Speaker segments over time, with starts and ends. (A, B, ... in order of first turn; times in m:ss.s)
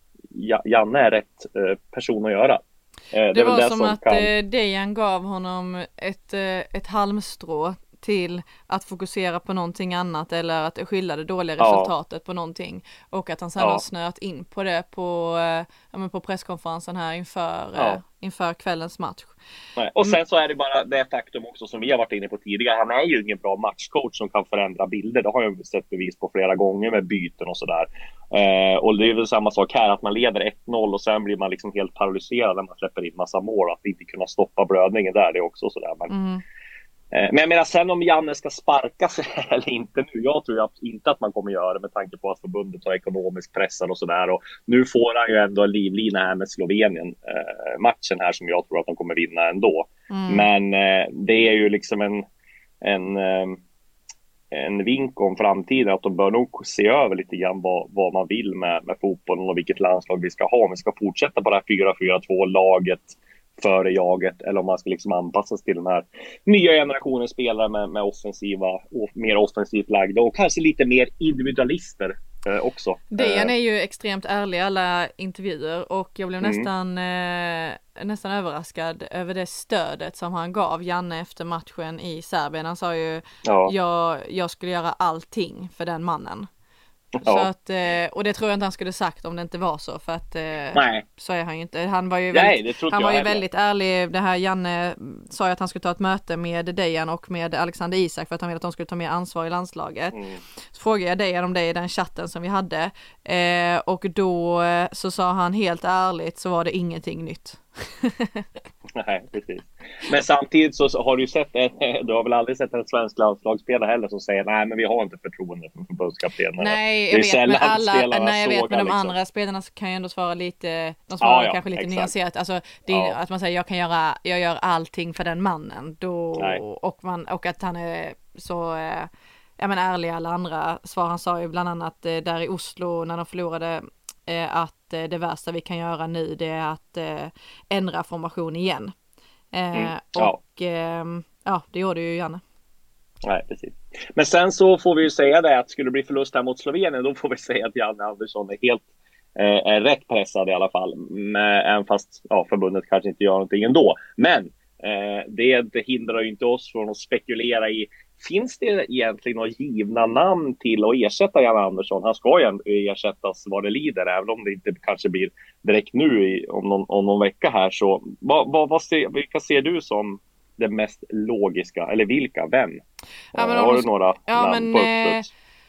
0:00.3-0:04.3 A
0:03.3-0:19.3 B
0:11.6-0:11.9 A
0:19.8-0:36.1 A
0:36.1-0:36.4 B
0:37.1-0:52.2 A
0:50.1-0:50.5 B
0:52.8-0:53.6 A
0:54.5-1:13.5 A
1:13.1-1:26.5 B
1:16.4-1:16.7 A
1:23.4-1:23.7 A
1:27.2-1:27.5 A
1:27.2-1:40.2 B
1:30.7-1:31.0 A
1:32.3-1:33.4 A
1:40.1-1:40.4 A
1:40.7-1:48.5 B
1:48.9-1:59.1 A
1:56.6-2:18.9 B
2:01.2-2:02.1 A
2:02.9-2:03.2 A
2:19.5-2:22.4 B
2:19.7-2:20.4 A
2:23.2-2:28.8 A
2:29.4-2:52.8 A
2:53.3-2:55.2 A
2:53.3-2:55.2 B